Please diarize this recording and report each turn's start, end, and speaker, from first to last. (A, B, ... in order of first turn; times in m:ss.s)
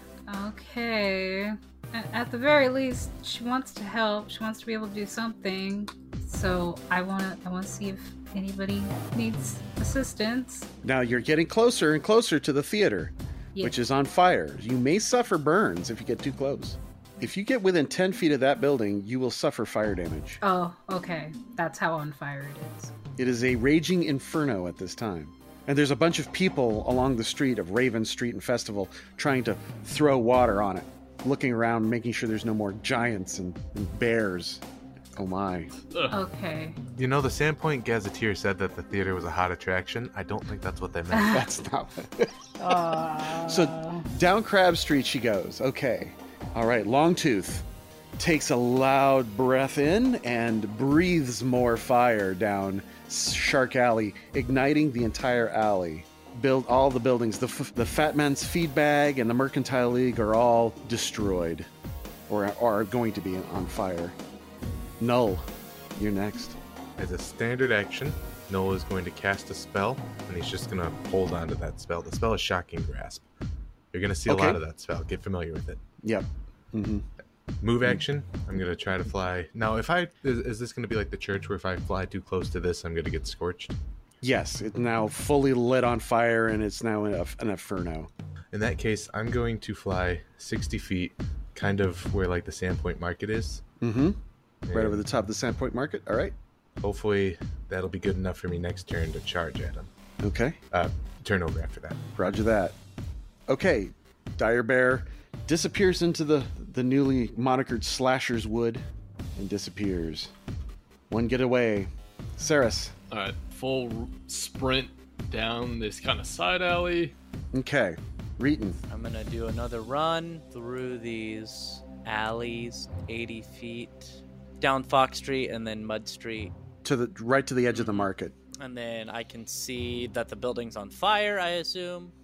0:00.3-0:10.7 A
0:10.8-0:20.4 B
0:20.4-0:22.9 A
0:23.2-0:34.6 B
0:35.2-0:35.7 B
0:35.9-0:36.2 C
0:36.1-0:36.8 A
0:37.0-0:41.5 D
0:41.1-0:41.4 A
0:41.3-0:42.8 B
0:42.6-0:44.1 A
0:43.4-0:47.7 B
0:48.2-1:01.7 B
1:02.3-1:04.2 B
1:05.0-1:06.6 B
1:07.0-1:13.2 D
1:13.9-1:15.8 D
1:14.3-1:14.6 B
1:16.0-1:17.1 B
1:17.6-1:23.8 D
1:24.2-1:28.1 B
1:28.5-1:33.6 D
1:33.8-1:34.2 B
1:34.7-1:35.0 D
1:34.7-1:36.4 B
1:36.8-1:39.9 D
1:40.2-1:40.6 B
1:40.7-1:42.0 D
1:42.2-1:42.8 B
1:43.5-1:48.8 B
1:49.4-1:50.3 B
1:51.1-1:53.0 B
1:53.1-1:57.1 C
1:57.5-1:58.8 B
1:58.9-2:06.5 E
2:06.8-2:08.3 B
2:07.7-2:12.1 E